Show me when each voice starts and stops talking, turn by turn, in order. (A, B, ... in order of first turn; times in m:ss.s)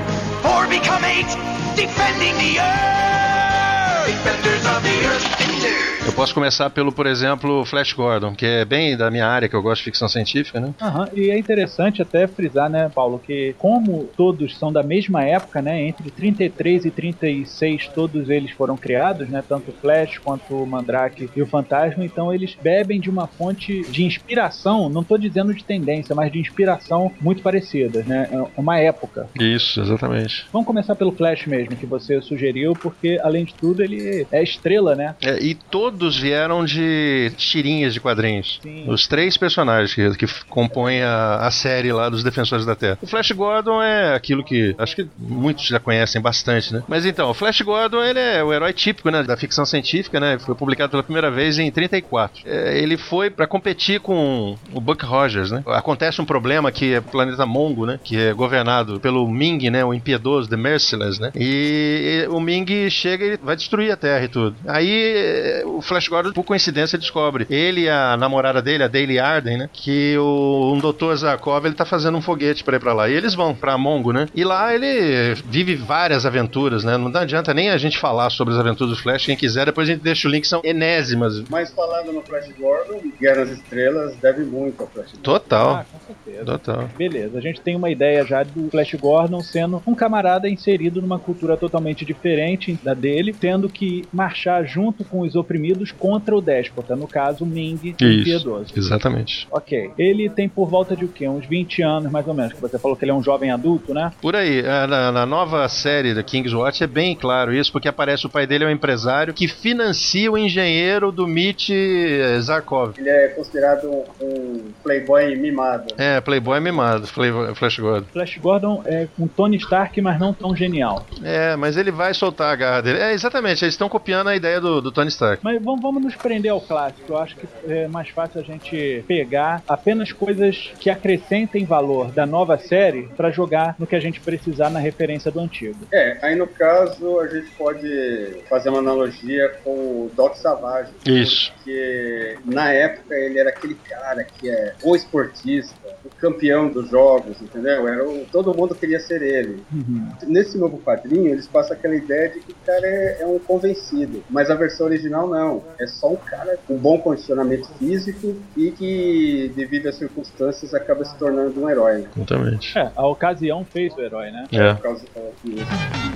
0:00.4-0:06.0 A
0:06.0-0:10.8 B
0:10.8-0:29.3 C
0:29.4-0:30.5 B
0:30.5-0:35.2 C
0:35.2-1:21.5 B
0:38.6-0:39.0 C
1:21.5-1:25.4 D
1:25.2-1:25.8 B
1:25.6-1:38.8 C
1:26.4-1:26.9 B
1:38.0-1:39.5 B
1:39.5-1:44.2 C
1:44.2-1:53.0 B
1:53.0-1:56.0 D
1:56.0-1:58.1 B
1:58.1-2:01.1 C
2:01.2-2:05.4 B
2:05.4-2:15.9 C
2:15.9-2:29.7 D
2:21.0-2:21.5 B
2:29.7-2:30.2 C
2:30.2-2:42.1 D
2:42.2-2:42.8 B
2:42.8-2:44.5 C
2:44.5-2:44.8 B
2:44.5-2:45.8 D